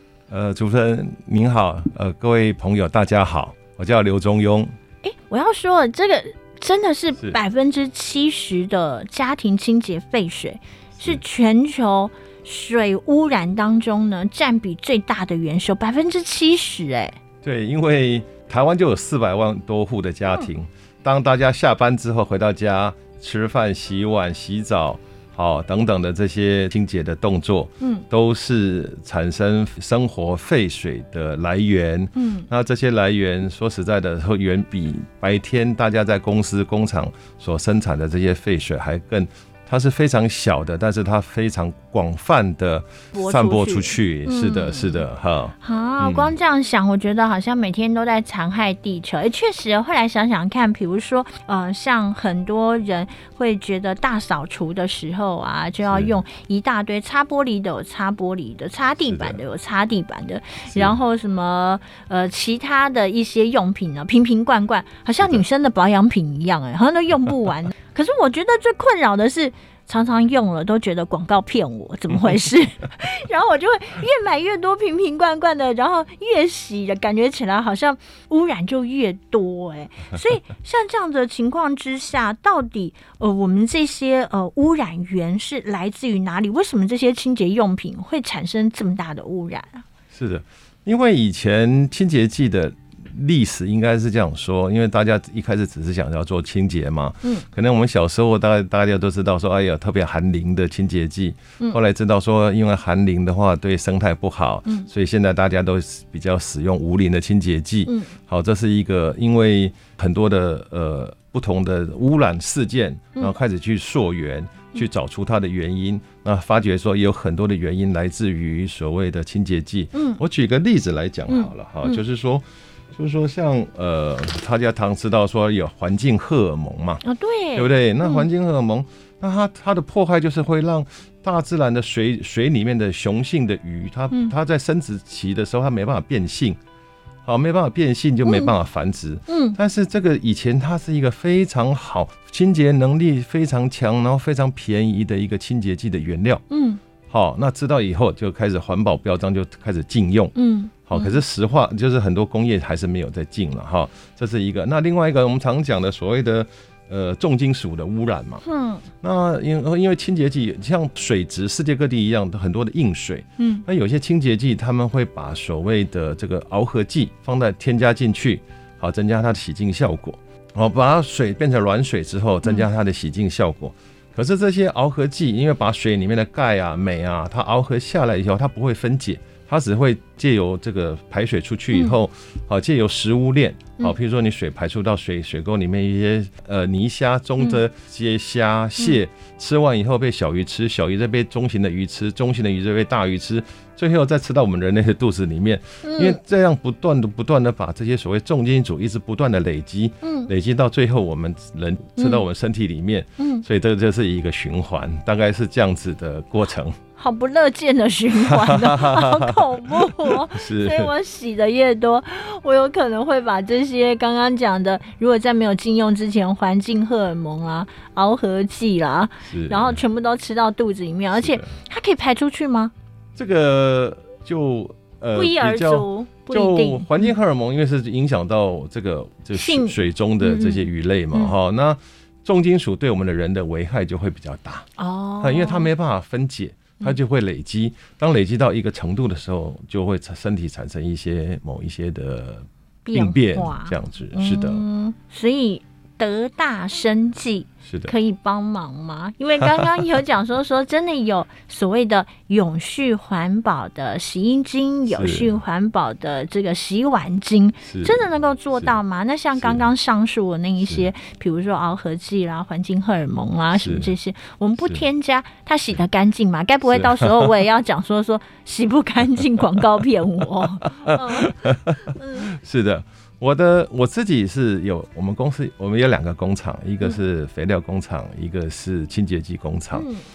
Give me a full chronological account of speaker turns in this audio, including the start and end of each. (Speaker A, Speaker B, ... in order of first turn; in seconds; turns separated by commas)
Speaker A: 0.3-4.7, Speaker B: 5.0-17.1, Speaker A: 17.4-46.3, Speaker B: 32.1-32.5, Speaker B: 43.1-45.0, Speaker B: 45.6-89.8, Speaker A: 55.9-56.1, Speaker A: 59.1-59.4, Speaker A: 90.1-127.0, Speaker B: 107.8-108.1, Speaker B: 119.9-120.2, Speaker B: 121.3-122.0, Speaker B: 127.0-128.2, Speaker A: 127.5-136.6, Speaker A: 137.2-146.4, Speaker B: 138.2-138.5, Speaker B: 139.3-139.6, Speaker B: 146.5-146.8, Speaker A: 147.1-150.3, Speaker B: 150.3-151.2, Speaker A: 150.9-158.4, Speaker B: 158.4-158.8, Speaker A: 159.0-206.8, Speaker B: 163.4-163.6, Speaker B: 181.7-182.0, Speaker B: 195.8-196.2, Speaker B: 200.0-200.3, Speaker B: 202.0-202.2, Speaker B: 203.2-203.4, Speaker B: 207.0-222.7, Speaker A: 208.2-210.9, Speaker A: 219.3-219.8, Speaker A: 221.2-221.5, Speaker A: 223.2-234.7, Speaker B: 225.1-227.1, Speaker B: 229.3-231.3, Speaker B: 234.8-235.7, Speaker A: 235.2-244.6, Speaker B: 242.8-272.3, Speaker A: 247.6-247.9, Speaker A: 249.4-249.7, Speaker A: 254.9-255.3, Speaker A: 257.6-258.0, Speaker A: 259.4-259.6, Speaker A: 263.5-263.9, Speaker A: 266.7-267.4, Speaker A: 270.6-279.9, Speaker B: 279.7-280.0